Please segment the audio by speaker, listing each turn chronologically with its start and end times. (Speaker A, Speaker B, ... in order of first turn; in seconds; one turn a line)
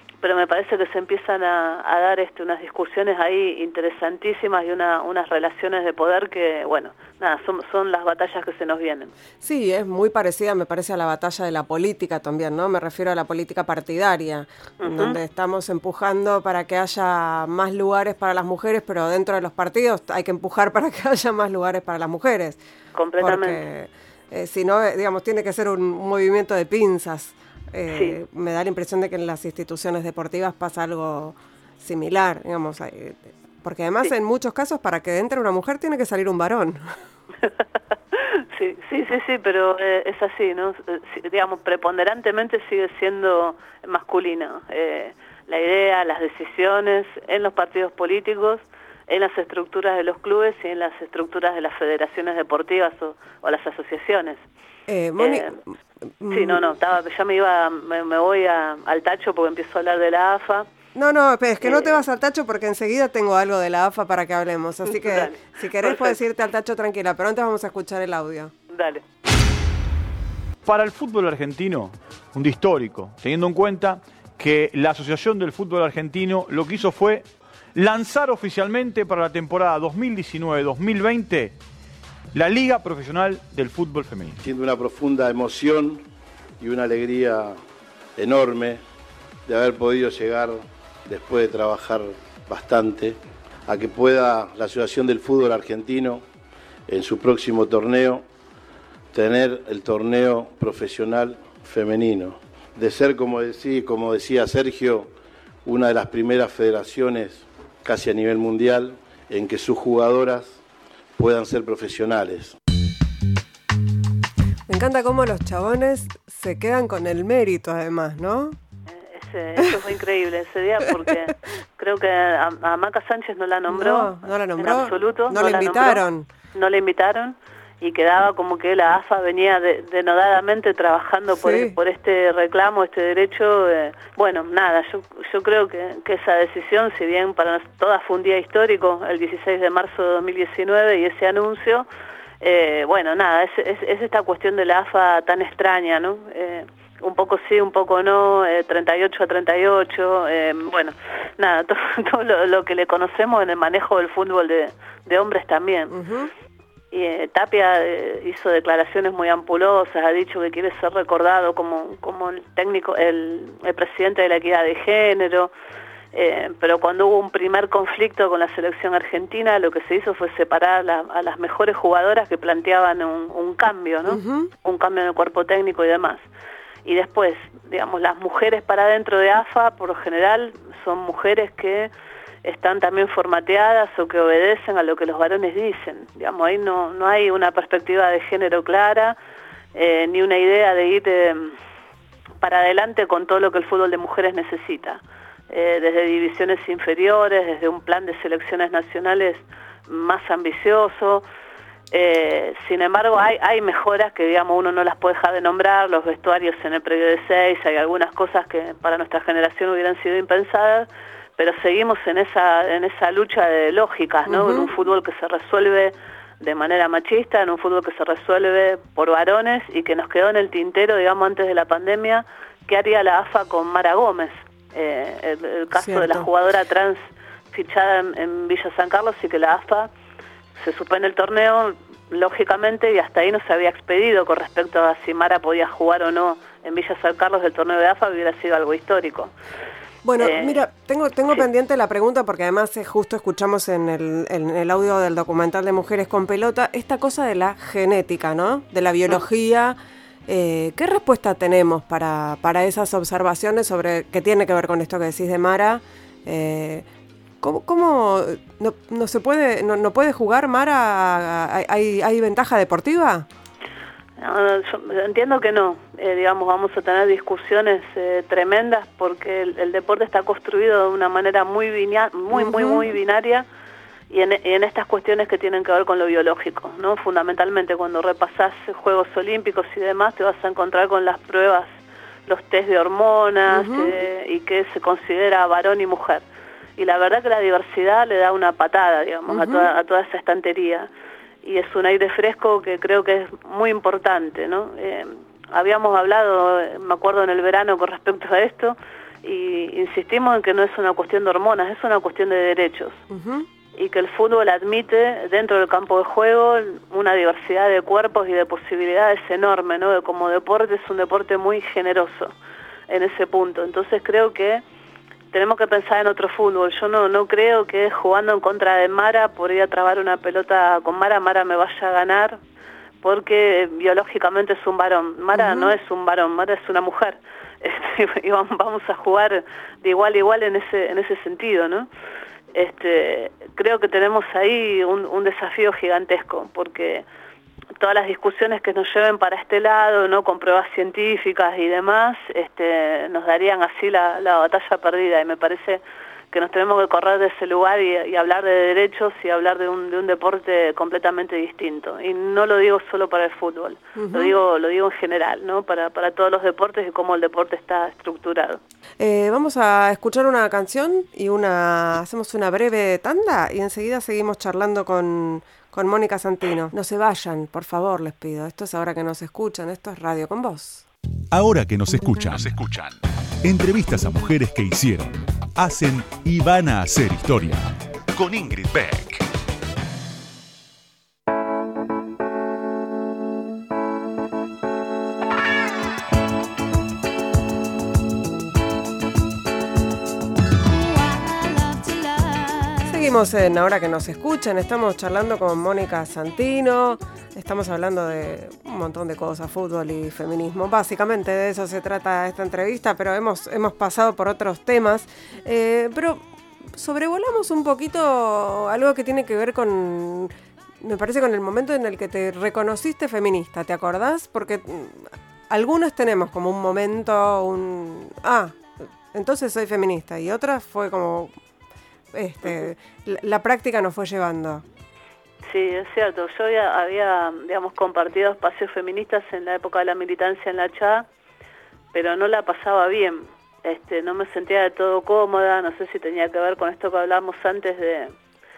Speaker A: 0.2-9.1
Speaker B: 9.4-22.6
Speaker A: 14.8-15.2
Speaker A: 22.9-23.6
Speaker B: 23.2-36.9
Speaker A: 27.9-28.1
Speaker A: 38.1-54.4
Speaker B: 54.9-55.7
Speaker A: 55.2-55.5
Speaker B: 56.2-56.6
Speaker A: 56.3-60.7
Speaker B: 60.9-68.5
Speaker A: 61.6-62.0
Speaker A: 64.9-66.2
Speaker A: 68.7-69.0
Speaker C: 70.6-81.6
Speaker C: 82.3-84.4
Speaker D: 84.4-86.0
Speaker D: 86.6-87.6
Speaker D: 88.2-88.8
Speaker D: 89.5-96.2
Speaker D: 96.9-98.2
Speaker D: 99.1-105.1
Speaker D: 105.6-110.6
Speaker D: 111.2-112.5
Speaker B: 114.7-118.6
Speaker A: 119.0-126.0
Speaker B: 123.7-126.3
Speaker A: 126.5-141.8
Speaker B: 131.3-131.8
Speaker A: 142.4-155.9
Speaker B: 155.9-156.3
Speaker A: 156.9-165.5
Speaker A: 166.1-176.2
Speaker B: 174.1-174.5
Speaker A: 176.8-181.9
Speaker A: 182.4-189.2
Speaker A: 189.7-191.6
Speaker A: 192.4-201.2
Speaker A: 201.9-229.9
Speaker B: 214.3-214.7
Speaker B: 225.7-226.3
Speaker A: 230.6-239.3
Speaker B: 240.0-256.9
Speaker A: 240.2-240.6
Speaker B: 257.4-263.2
Speaker A: 264.2-273.4
Speaker B: 272.3-272.9
Speaker A: 274.1-281.7
Speaker A: 282.3-286.2
Speaker B: 283.5-283.9
Speaker A: 286.8-290.9
Speaker B: 289.3-289.7
Speaker A: 291.4-303.0
Speaker B: 303.1-303.5
Speaker A: 303.8-312.3
Speaker A: 312.9-314.6
Speaker A: 315.3-322.4
Speaker A: 323.0-331.9
Speaker B: 325.3-325.7
Speaker A: 332.5-337.0
Speaker A: 337.8-358.6
Speaker B: 353.9-354.4
Speaker B: 359.0-370.9
Speaker E: 371.3-379.2
Speaker B: 392.8-406.2
Speaker B: 406.7-421.3
Speaker B: 422.1-424.6
Speaker A: 425.4-431.0
Speaker A: 431.9-438.1